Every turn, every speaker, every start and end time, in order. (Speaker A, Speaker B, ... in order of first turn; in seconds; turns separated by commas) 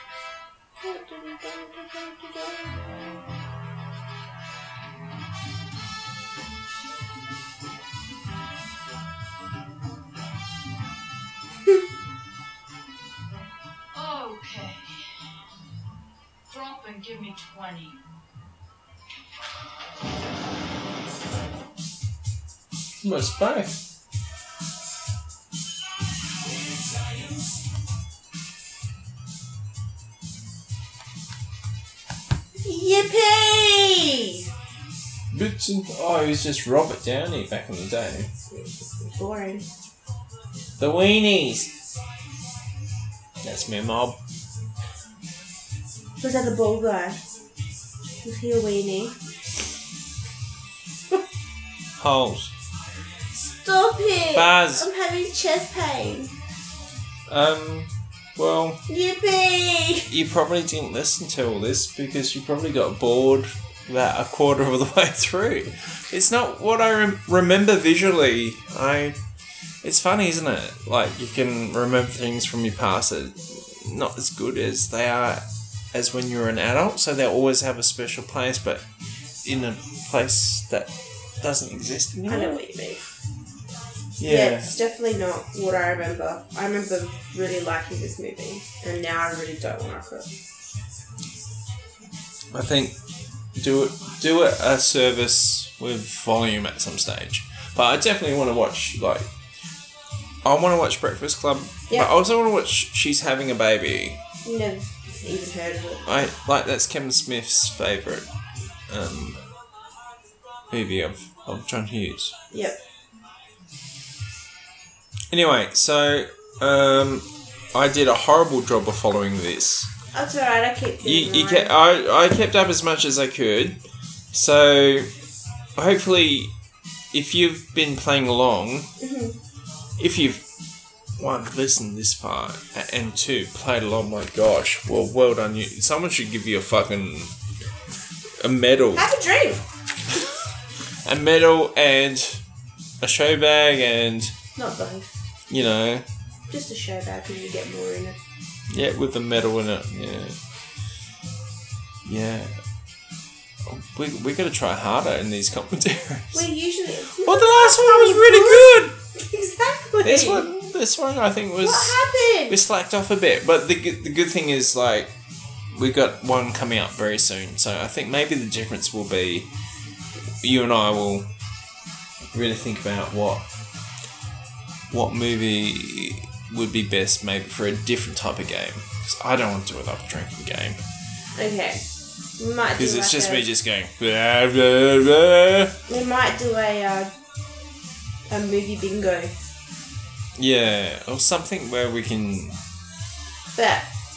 Speaker A: 0.8-2.9, Speaker B: 13.9-15.2, Speaker B: 16.5-18.0, Speaker C: 23.0-23.8, Speaker A: 32.6-34.5, Speaker C: 35.3-38.3, Speaker A: 38.5-39.6, Speaker C: 40.8-41.7, Speaker C: 43.4-44.2, Speaker A: 46.2-47.2, Speaker A: 48.2-49.1, Speaker C: 52.0-52.5, Speaker A: 53.6-56.3, Speaker C: 54.3-54.9, Speaker C: 57.3-58.8, Speaker A: 58.9-60.1, Speaker C: 60.1-69.2, Speaker C: 69.8-78.8, Speaker C: 79.4-82.6, Speaker A: 82.3-83.0, Speaker C: 84.2-84.7, Speaker A: 84.2-90.4, Speaker C: 92.5-93.0, Speaker C: 93.5-99.3, Speaker C: 100.4-104.2, Speaker A: 104.4-106.2, Speaker C: 106.0-108.3, Speaker C: 108.9-109.4, Speaker C: 110.7-112.3, Speaker A: 112.5-112.8, Speaker C: 115.3-119.9, Speaker A: 120.1-121.7, Speaker C: 121.0-123.8, Speaker C: 124.3-125.1, Speaker C: 125.8-126.5, Speaker C: 127.1-128.9, Speaker A: 129.0-129.4, Speaker C: 130.0-130.4, Speaker C: 131.2-137.3, Speaker C: 138.4-139.1, Speaker A: 138.9-139.6, Speaker C: 140.1-140.3, Speaker C: 141.0-142.4, Speaker C: 143.0-144.3, Speaker A: 144.6-145.2, Speaker C: 145.5-146.1, Speaker A: 146.5-148.2, Speaker C: 148.7-150.4, Speaker C: 152.0-152.5, Speaker C: 153.6-156.5, Speaker A: 156.3-160.5, Speaker C: 157.1-158.9, Speaker C: 160.0-165.1, Speaker A: 161.6-162.6, Speaker C: 165.7-169.5, Speaker C: 170.4-171.3, Speaker C: 172.3-173.4, Speaker C: 174.9-180.8, Speaker A: 181.3-181.8, Speaker A: 182.4-183.4, Speaker C: 182.8-185.8, Speaker A: 185.9-187.1, Speaker A: 188.3-189.3, Speaker C: 190.3-192.6, Speaker A: 193.5-193.9